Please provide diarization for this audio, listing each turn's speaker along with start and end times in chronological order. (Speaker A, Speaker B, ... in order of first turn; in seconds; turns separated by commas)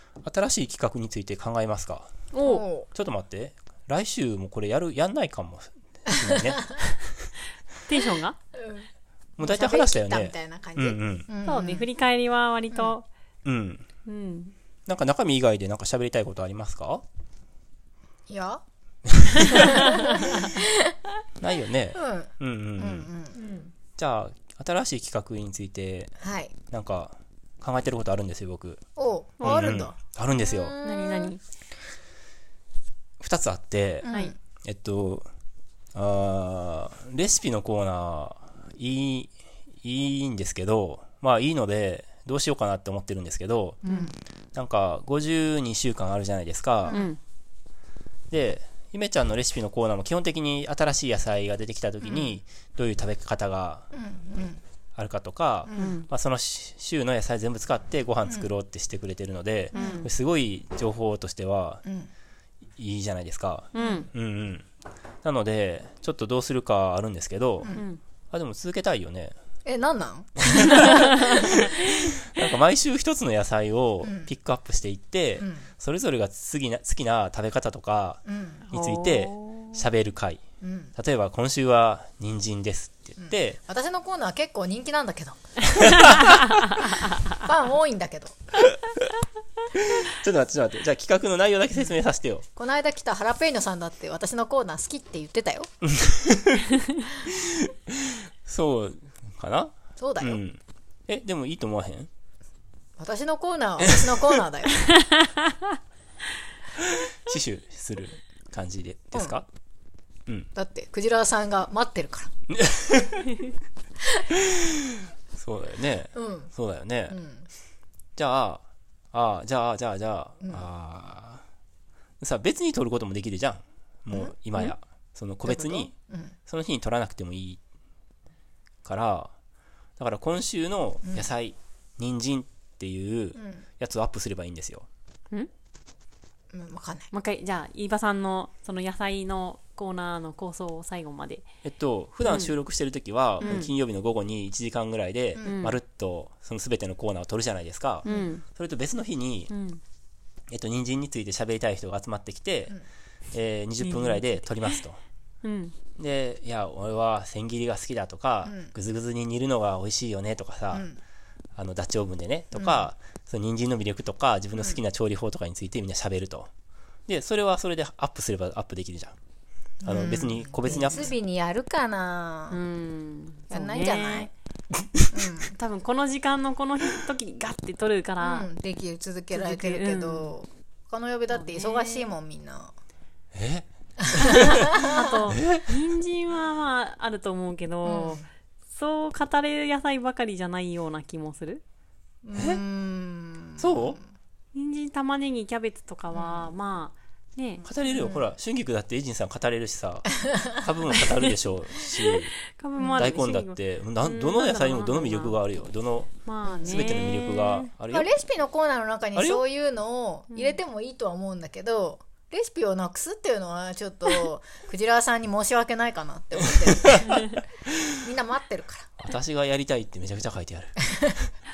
Speaker A: 0.2-2.1, Speaker B: 2.3-2.7, Speaker C: 2.4-2.9, Speaker A: 2.9-7.2, Speaker C: 6.1-6.6, Speaker B: 7.9-8.4, Speaker C: 8.5-8.9, Speaker A: 9.4-11.3, Speaker C: 9.4-11.9, Speaker B: 11.4-13.0, Speaker A: 13.4-13.8, Speaker B: 14.1-14.5, Speaker A: 14.9-17.0, Speaker C: 18.3-18.6, Speaker A: 19.1-20.4, Speaker C: 19.5-21.0, Speaker B: 19.7-20.0, Speaker A: 21.4-23.1, Speaker C: 21.9-23.5, Speaker A: 24.0-26.1, Speaker C: 26.2-26.5, Speaker A: 26.7-28.8, Speaker C: 28.9-31.3, Speaker A: 29.4-30.8, Speaker B: 29.4-29.7, Speaker B: 30.8-31.4, Speaker A: 33.2-34.1, Speaker C: 34.0-34.4, Speaker A: 34.6-35.3, Speaker A: 35.9-43.8, Speaker C: 43.8-44.1, Speaker A: 44.5-47.0, Speaker B: 46.9-47.2, Speaker A: 48.3-53.9, Speaker C: 53.9-54.6, Speaker A: 55.0-61.8, Speaker C: 55.6-56.0, Speaker B: 55.7-56.1, Speaker C: 59.7-60.1, Speaker B: 59.7-60.1, Speaker C: 61.8-62.1, Speaker A: 62.8-64.7, Speaker B: 63.7-64.1, Speaker C: 63.8-64.1, Speaker A: 65.2-67.7, Speaker B: 67.7-68.0, Speaker A: 68.3-69.3, Speaker C: 69.6-71.8, Speaker A: 70.5-80.4, Speaker C: 74.0-74.3, Speaker C: 75.4-75.7, Speaker C: 78.2-78.6, Speaker B: 78.7-79.8, Speaker C: 80.6-80.9, Speaker A: 81.0-83.6, Speaker C: 83.2-86.2, Speaker A: 85.8-86.4, Speaker C: 86.7-88.4, Speaker A: 88.7-89.0, Speaker A: 89.7-92.4, Speaker C: 92.5-95.7, Speaker A: 95.8-96.6, Speaker A: 97.2-102.1, Speaker C: 100.0-100.4, Speaker C: 103.0-104.8, Speaker A: 106.8-109.5, Speaker C: 110.5-112.3, Speaker A: 112.5-113.3, Speaker A: 114.3-117.2, Speaker C: 116.1-116.5, Speaker C: 117.1-117.5, Speaker A: 118.2-121.4, Speaker A: 122.2-125.9, Speaker C: 125.5-126.3, Speaker A: 126.5-127.6, Speaker A: 128.8-129.3, Speaker A: 130.0-134.9, Speaker C: 133.4-133.6, Speaker C: 136.5-137.1, Speaker B: 137.1-141.4, Speaker A: 141.6-149.5, Speaker B: 142.2-142.5, Speaker B: 143.4-143.7, Speaker C: 145.3-145.7, Speaker B: 145.4-145.8, Speaker C: 148.0-148.3, Speaker B: 148.0-148.4, Speaker B: 149.5-149.8, Speaker A: 150.5-152.8, Speaker A: 153.3-155.0, Speaker B: 153.8-154.2, Speaker B: 155.4-155.8, Speaker A: 156.0-160.9, Speaker C: 158.4-158.7, Speaker C: 160.7-161.0, Speaker A: 161.6-166.5, Speaker C: 162.5-162.9, Speaker A: 167.1-169.2, Speaker C: 169.8-172.6, Speaker A: 169.8-171.1, Speaker B: 172.5-174.3, Speaker C: 173.5-174.3, Speaker C: 175.1-175.6, Speaker B: 175.4-178.5, Speaker C: 178.2-182.7, Speaker B: 179.3-180.3, Speaker B: 181.3-182.1, Speaker A: 183.3-185.8, Speaker C: 184.0-185.2, Speaker B: 184.2-191.6, Speaker C: 187.8-188.2, Speaker C: 192.2-193.9, Speaker A: 192.3-192.6, Speaker A: 193.6-194.0, Speaker B: 194.5-197.6, Speaker C: 196.1-196.5, Speaker A: 197.6-202.3, Speaker C: 197.9-198.2, Speaker C: 200.2-200.6, Speaker B: 202.5-205.4, Speaker C: 202.8-203.1, Speaker A: 203.0-206.1, Speaker B: 206.2-207.7, Speaker C: 206.4-206.9, Speaker A: 206.6-208.1, Speaker C: 207.9-217.2, Speaker A: 209.2-209.4, Speaker A: 216.7-217.9, Speaker C: 217.9-218.9, Speaker A: 219.0-221.3